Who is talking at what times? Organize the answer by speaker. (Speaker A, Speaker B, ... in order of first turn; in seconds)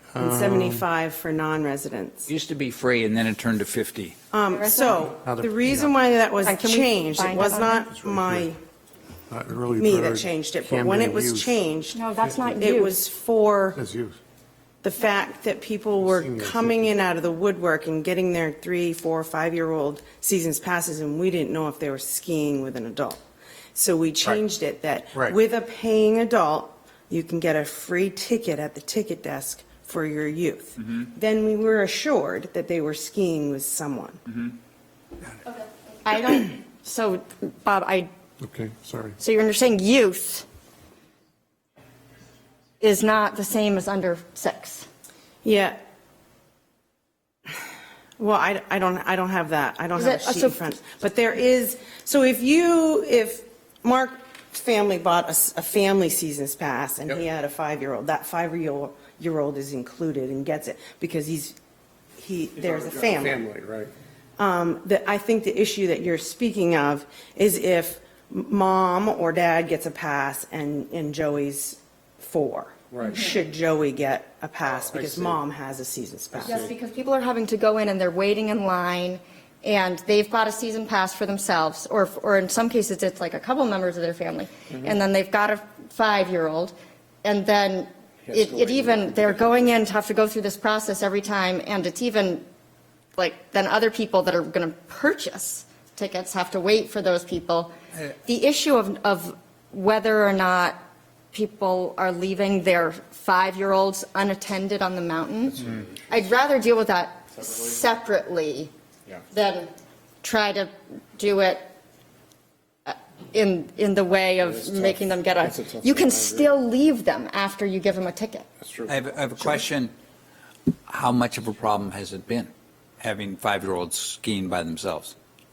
Speaker A: 0.1-0.8, 5.2-6.0, 7.9-8.5, 9.3-11.6, 12.2-12.7, 13.8-14.2, 16.0-16.9, 38.4-39.2, 62.6-63.9, 72.9-73.2, 74.6-75.4, 76.3-76.7, 88.2-89.8, 114.4-116.5, 118.6-119.6
Speaker B: 0.2-2.3, 4.3-8.6, 9.8-12.0, 12.6-13.8, 14.8-23.2, 23.8-34.2, 45.4-45.8, 48.2-61.6, 62.2-63.4, 64.4-76.7
Speaker C: 2.3-4.2, 118.9-119.9, 120.9-125.1
Speaker D: 4.5-5.1, 6.4-7.9, 11.9-13.0, 35.5-38.1, 39.2-40.5, 42.8-44.9, 50.0-50.6, 73.0-73.4, 76.4-92.5, 93.2-100.8, 101.3-108.7, 109.3-109.7, 110.2-111.7, 112.9-118.5